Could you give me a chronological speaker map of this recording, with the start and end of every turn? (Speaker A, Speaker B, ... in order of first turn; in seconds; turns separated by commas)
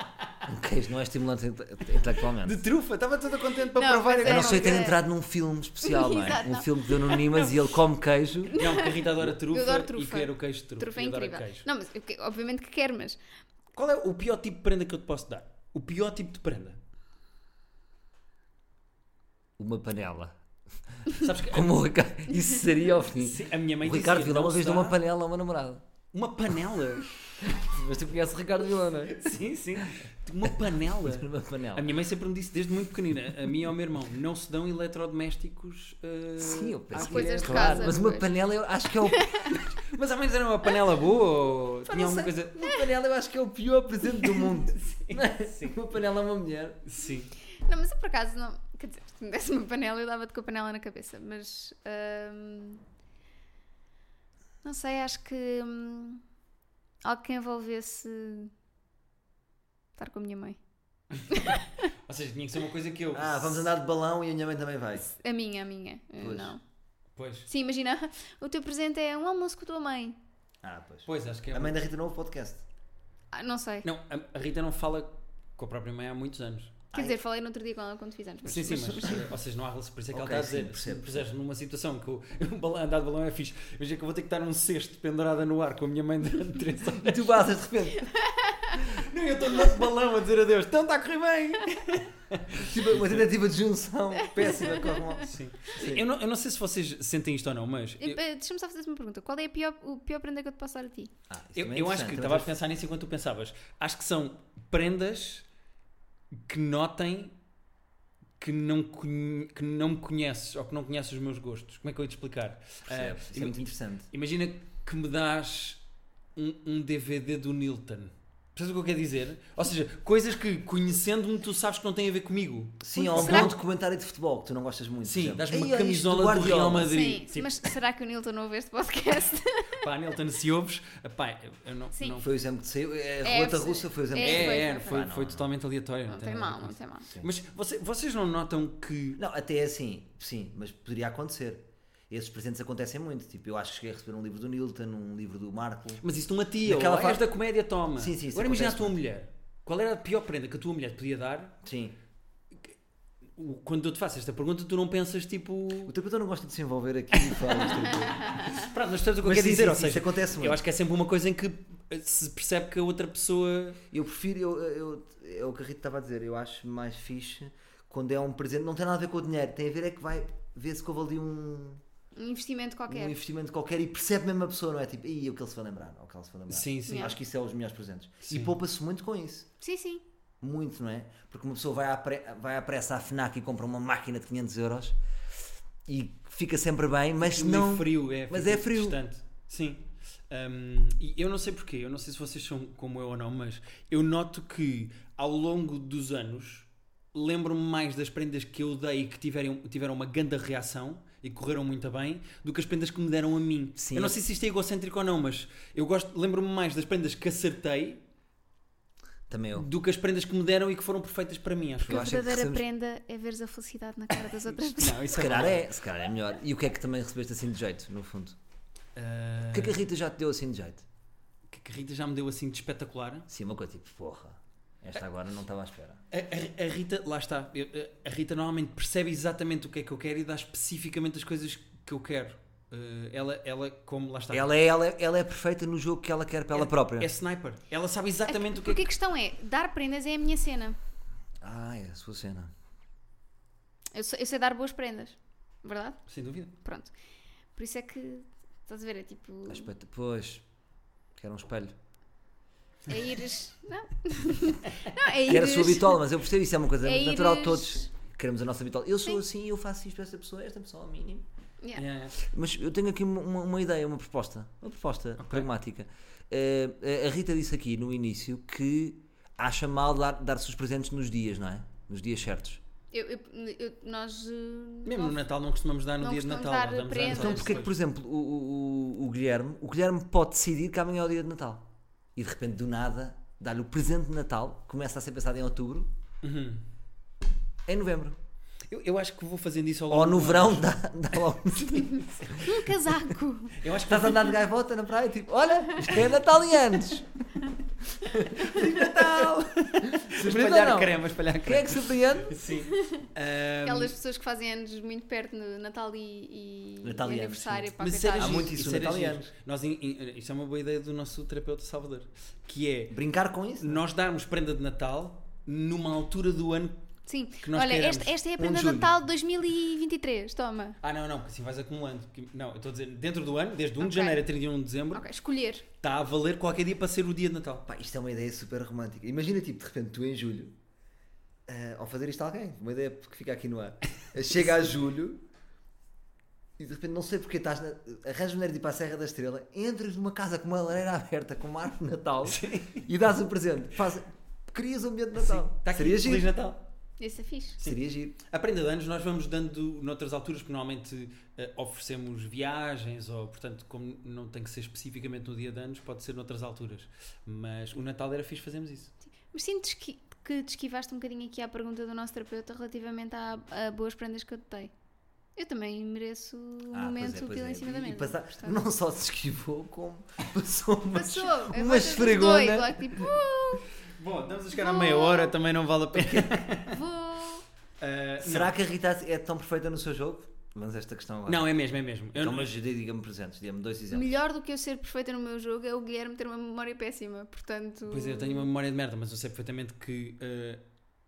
Speaker A: 0.5-2.6, Speaker B: 2.4-4.9, Speaker C: 3.8-5.0, Speaker A: 4.2-8.6, Speaker C: 5.8-7.5, Speaker C: 8.5-13.2, Speaker B: 8.6-11.7, Speaker B: 13.8-16.8, Speaker A: 19.6-20.4, Speaker A: 21.1-25.8, Speaker B: 21.1-21.9, Speaker B: 23.1-25.0, Speaker B: 26.1-27.1, Speaker A: 27.4-29.2, Speaker B: 29.1-38.0, Speaker A: 30.5-31.9, Speaker A: 36.4-39.6, Speaker C: 36.9-38.4, Speaker C: 39.1-39.5, Speaker B: 39.5-42.6, Speaker C: 41.9-42.7, Speaker A: 42.5-46.8, Speaker B: 44.7-45.8, Speaker B: 46.9-47.3, Speaker C: 47.6-52.8, Speaker C: 54.6-56.2, Speaker C: 57.0-58.5, Speaker C: 60.0-60.6, Speaker B: 61.2-61.5, Speaker C: 61.3-61.9, Speaker B: 62.1-63.6, Speaker A: 63.1-65.1, Speaker C: 65.1-66.6, Speaker A: 66.2-66.5, Speaker B: 67.2-67.5, Speaker C: 67.5-70.2, Speaker A: 70.6-72.7, Speaker B: 71.1-71.8, Speaker C: 73.3-73.9, Speaker B: 73.8-76.8, Speaker C: 76.9-79.3, Speaker B: 78.5-87.4, Speaker A: 80.1-81.3, Speaker A: 86.9-88.1, Speaker C: 88.2-88.8, Speaker B: 88.8-93.3, Speaker A: 92.6-96.0, Speaker C: 94.4-95.3, Speaker B: 95.2-98.2, Speaker C: 98.0-101.1, Speaker A: 101.3-102.5, Speaker B: 101.6-105.5, Speaker B: 106.5-107.3, Speaker B: 108.4-115.8, Speaker A: 112.9-114.1, Speaker B: 116.4-123.5, Speaker A: 122.8-127.1, Speaker C: 123.0-123.5, Speaker B: 125.0-127.6, Speaker C: 126.9-129.8, Speaker B: 129.8-132.3, Speaker C: 132.0-132.2, Speaker A: 132.2-135.5, Speaker C: 133.2-135.1, Speaker B: 134.2-139.2, Speaker C: 136.1-137.1, Speaker A: 139.2-146.0, Speaker B: 146.0-151.6, Speaker A: 146.7-147.3, Speaker A: 148.0-149.0, Speaker A: 151.6-151.9, Speaker B: 153.4-155.9, Speaker A: 155.9-158.5, Speaker B: 157.1-163.8, Speaker A: 159.2-160.6, Speaker A: 163.9-171.8, Speaker C: 172.2-173.2, Speaker A: 172.9-179.5, Speaker B: 176.5-177.2, Speaker C: 176.9-177.2, Speaker B: 178.2-178.6, Speaker C: 179.6-180.0, Speaker A: 180.4-185.0, Speaker A: 185.9-189.0, Speaker B: 187.2-208.0, Speaker A: 203.8-204.2, Speaker A: 209.3-209.7, Speaker B: 209.5-212.1, Speaker A: 211.8-212.6, Speaker C: 211.9-215.2, Speaker B: 214.5-215.7, Speaker A: 215.1-218.4, Speaker B: 218.9-219.8, Speaker A: 219.5-220.8, Speaker B: 221.5-223.3, Speaker A: 223.3-226.0, Speaker B: 226.1-234.5, Speaker A: 234.3-237.1, Speaker B: 236.5-238.9, Speaker C: 238.3-240.8, Speaker A: 241.4-242.5, Speaker C: 243.9-246.0, Speaker B: 246.1-246.5, Speaker C: 246.6-246.9, Speaker C: 247.6-249.7, Speaker A: 249.5-250.4, Speaker A: 251.2-251.8, Speaker C: 252.9-256.0, Speaker A: 255.2-261.3, Speaker C: 256.8-257.9, Speaker B: 261.8-262.2, Speaker A: 262.2-272.6, Speaker B: 265.2-265.5, Speaker C: 272.9-275.2, Speaker B: 274.9-277.7, Speaker C: 276.0-277.6, Speaker A: 277.1-285.9, Speaker B: 286.2-286.6, Speaker A: 287.7-288.2, Speaker B: 288.7-290.8, Speaker A: 289.9-292.6, Speaker B: 291.7-292.5, Speaker C: 292.4-293.6, Speaker B: 293.6-294.4, Speaker A: 293.9-297.1, Speaker A: 298.0-302.4, Speaker B: 298.3-303.9, Speaker C: 302.7-303.1, Speaker C: 303.6-308.5, Speaker A: 306.8-309.3, Speaker B: 307.8-313.0, Speaker A: 312.9-313.8, Speaker B: 313.6-316.8, Speaker C: 317.1-320.8, Speaker B: 317.4-318.2, Speaker A: 318.4-318.9, Speaker B: 320.8-325.1, Speaker C: 323.8-324.2, Speaker C: 324.9-325.6, Speaker B: 325.8-327.6, Speaker A: 327.7-330.6, Speaker A: 331.5-335.2, Speaker A: 336.6-346.3, Speaker B: 342.2-342.8, Speaker B: 345.1-346.6, Speaker C: 347.0-347.6, Speaker B: 347.6-358.9, Speaker A: 347.6-348.2, Speaker C: 359.3-364.7, Speaker C: 365.4-368.6, Speaker A: 366.7-373.1, Speaker C: 370.9-373.7, Speaker B: 374.0-376.8, Speaker C: 374.5-375.3, Speaker A: 375.9-376.4, Speaker C: 376.7-377.4, Speaker B: 377.8-378.5, Speaker A: 378.2-381.5, Speaker B: 381.3-382.5, Speaker A: 382.1-384.1, Speaker C: 383.9-388.5, Speaker B: 387.9-390.6